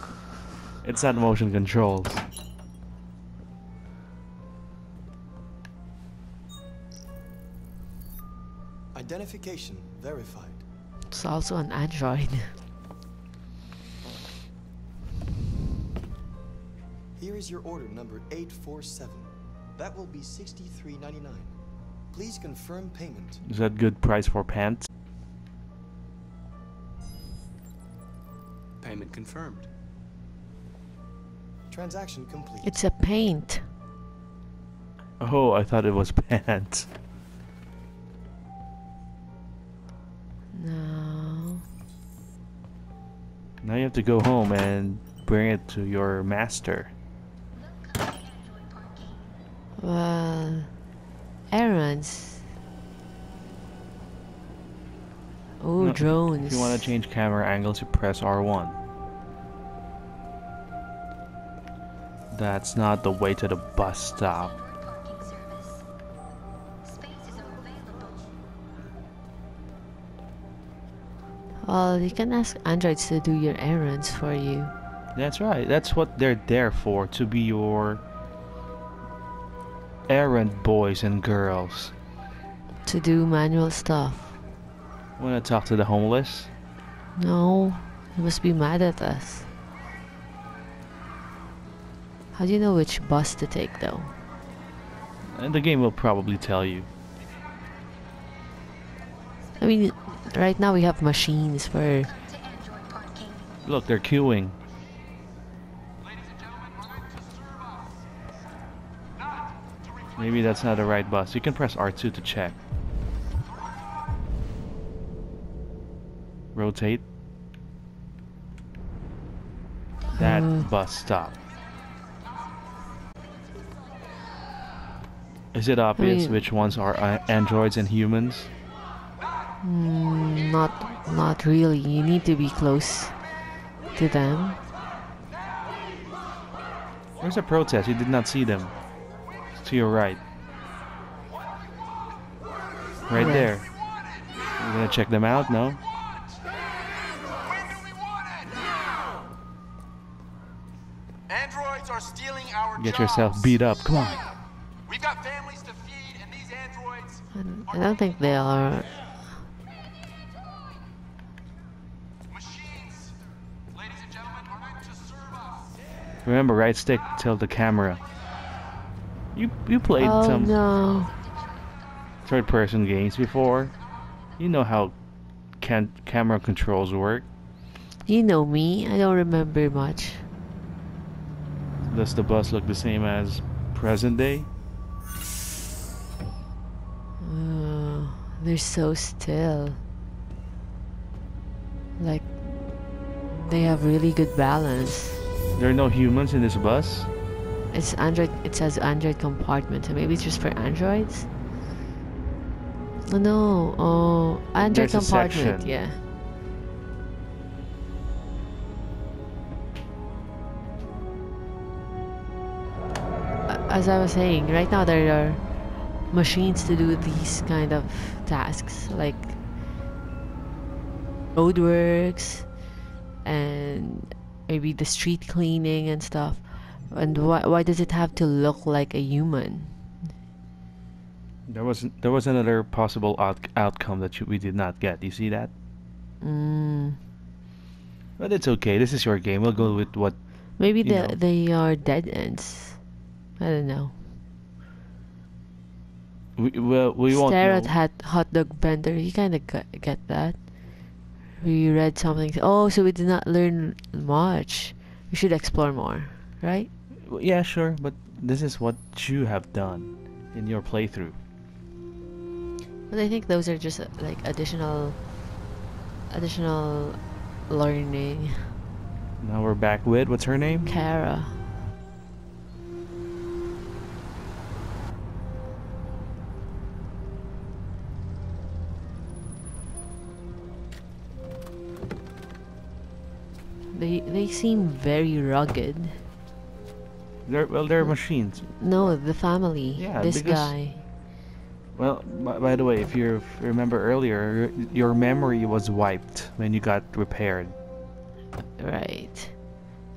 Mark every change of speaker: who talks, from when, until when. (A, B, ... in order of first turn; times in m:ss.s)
0:00.8-0:02.2 A
0:08.9-0:10.6 B
0:11.1-0:12.6 C
0:17.2-0:21.6 B
0:22.1-0:23.4 B
0:23.4-0:24.9 A
0:28.8-0:29.6 D
0:31.7-0:32.8 B
0:32.6-0:33.7 C
0:35.2-0:36.9 A
0:40.5-0:41.6 C
0:43.6-0:46.9 A
0:49.8-0:50.7 C
0:51.5-0:52.5 C
0:55.6-0:56.8 C
0:55.8-0:58.8 A
1:02.3-1:04.6 A
1:04.6-1:05.8 E
1:06.9-1:08.1 E
1:11.6-1:14.7 C
1:15.2-1:18.0 A
1:20.1-1:21.9 A
1:22.8-1:24.4 C
1:25.2-1:26.5 A
1:27.2-1:29.5 C
1:32.3-1:34.1 C
1:35.2-1:36.9 A
1:39.6-1:42.2 C
1:43.6-1:44.6 A
1:50.2-1:52.6 A
1:56.5-1:57.0 A
2:00.1-2:01.4 A
2:00.2-2:00.7 C
2:05.5-2:08.5 A
2:06.0-2:06.4 C
2:09.6-2:13.2 C
2:13.9-2:14.6 C
2:17.2-2:18.7 A
2:19.6-2:20.2 A
2:23.1-2:23.7 A
2:23.1-2:23.6 C
2:24.6-2:25.8 A
2:31.3-2:33.5 D
2:32.8-2:34.3 A
2:34.9-2:37.2 D
2:37.3-2:39.2 C
2:42.4-2:43.0 D
2:43.8-2:45.4 D
2:46.2-2:48.0 A
2:49.3-2:50.6 A
2:50.0-2:51.2 C
2:52.2-2:53.8 A
2:54.4-2:55.0 A
2:55.6-2:57.3 A
2:58.1-3:00.3 C
3:01.8-3:04.5 A
3:07.2-3:09.8 C
3:12.0-3:15.2 C
3:15.6-3:17.1 A
3:17.7-3:21.3 C
3:23.1-3:26.0 C
3:24.6-3:25.7 A
3:33.5-3:39.4 C
3:41.4-3:42.6 C
3:43.2-3:49.9 C
3:51.5-3:55.5 A
3:56.2-3:57.0 C
3:58.2-4:01.2 A
4:00.6-4:02.8 C
4:03.4-4:04.0 C
4:06.4-4:07.7 A
4:07.1-4:16.7 C
4:17.0-4:21.2 A
4:22.9-4:25.3 C
4:26.1-4:28.6 C
4:29.2-4:30.7 A
4:30.7-4:31.5 C
4:43.7-4:46.0 C
4:47.3-4:49.0 A
4:47.8-4:50.8 C
4:49.7-4:50.6 A
4:51.8-4:57.6 A
4:58.6-4:59.4 C